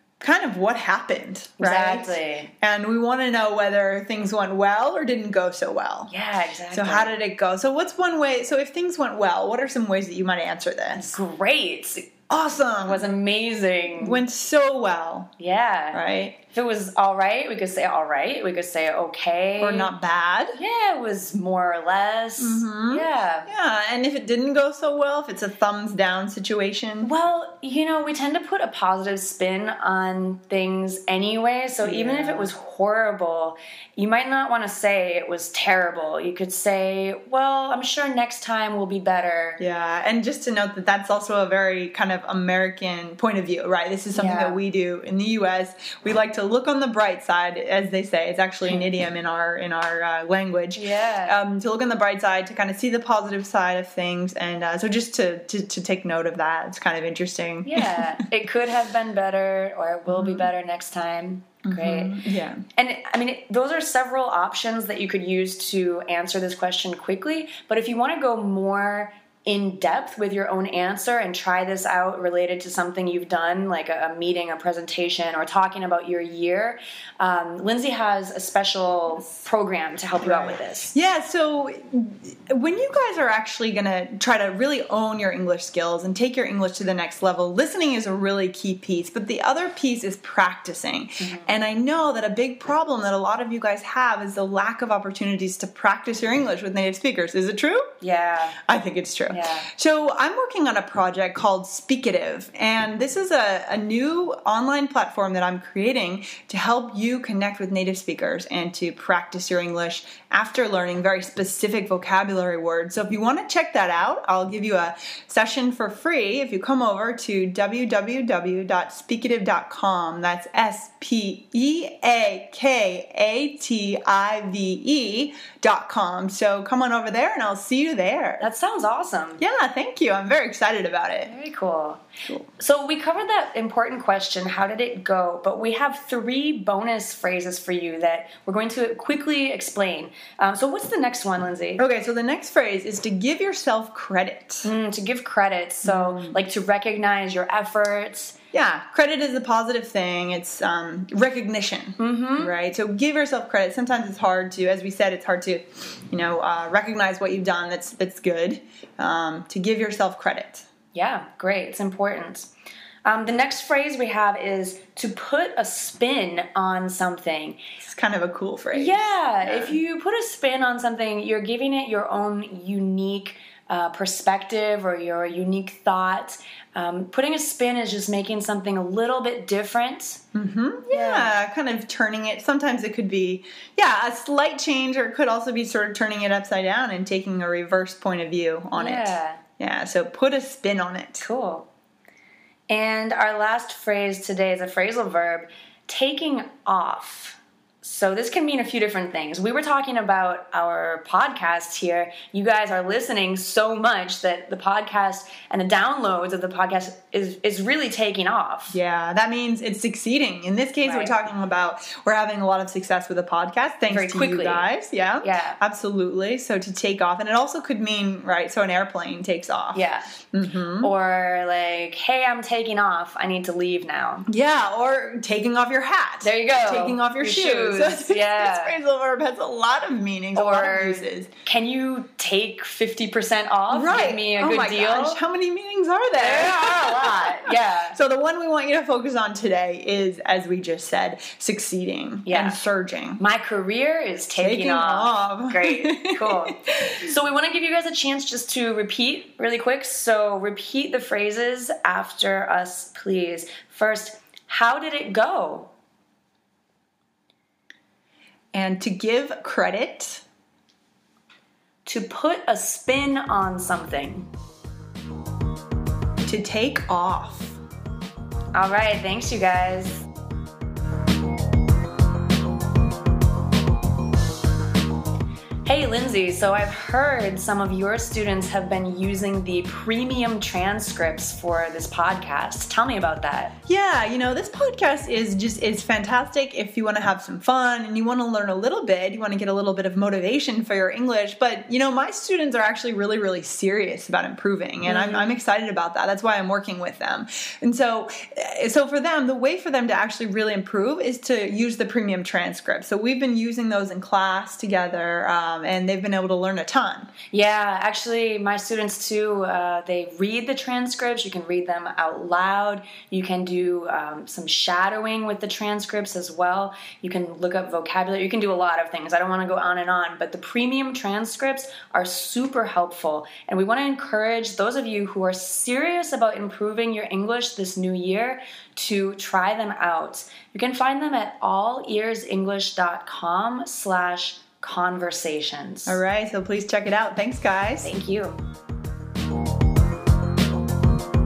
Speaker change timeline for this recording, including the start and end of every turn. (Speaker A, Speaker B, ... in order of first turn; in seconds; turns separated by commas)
Speaker A: 0.2-6.1, Speaker B: 1.6-2.5, Speaker B: 6.1-7.2, Speaker A: 6.7-11.1, Speaker B: 11.0-12.1, Speaker A: 12.3-13.1, Speaker B: 12.9-14.2, Speaker A: 14.0-15.3, Speaker B: 15.4-19.9, Speaker A: 15.9-16.4, Speaker A: 19.6-20.6, Speaker B: 20.6-23.5, Speaker A: 22.4-27.1, Speaker B: 27.0-39.6, Speaker A: 31.8-32.5, Speaker A: 39.6-58.1, Speaker B: 44.1-44.6, Speaker B: 50.8-51.4, Speaker B: 57.6-62.2, Speaker A: 60.1-60.5, Speaker A: 61.6-62.6, Speaker B: 62.8-81.0, Speaker A: 80.2-97.9, Speaker B: 91.2-91.5, Speaker B: 98.0-98.6, Speaker A: 98.7-128.5, Speaker B: 99.3-99.7, Speaker B: 128.4-129.4, Speaker A: 129.4-131.3, Speaker B: 131.2-132.0, Speaker B: 132.6-141.8, Speaker A: 141.8-144.7, Speaker B: 144.6-148.4, Speaker A: 145.8-146.4, Speaker A: 148.5-160.7, Speaker B: 152.0-152.5, Speaker B: 160.9-162.5, Speaker B: 163.1-167.6, Speaker A: 167.8-169.8, Speaker B: 168.7-180.2, Speaker A: 180.3-191.3, Speaker B: 180.9-181.4, Speaker B: 188.8-189.4, Speaker B: 191.2-191.7, Speaker B: 192.7-208.8, Speaker A: 208.7-220.9, Speaker B: 210.8-211.1, Speaker B: 213.9-214.7, Speaker B: 215.2-215.6, Speaker B: 219.7-220.2, Speaker B: 220.8-224.3, Speaker A: 224.3-231.3, Speaker B: 226.2-228.8, Speaker B: 230.3-235.2, Speaker A: 233.7-243.2, Speaker B: 236.2-238.0, Speaker B: 242.3-242.6, Speaker B: 243.2-255.7, Speaker A: 244.4-247.0, Speaker A: 258.5-260.2, Speaker B: 261.9-264.3, Speaker A: 266.3-267.6, Speaker B: 268.5-270.1, Speaker B: 275.6-283.5, Speaker A: 283.7-307.1, Speaker B: 294.8-295.4, Speaker B: 307.3-336.0, Speaker A: 335.9-337.9, Speaker B: 337.8-338.4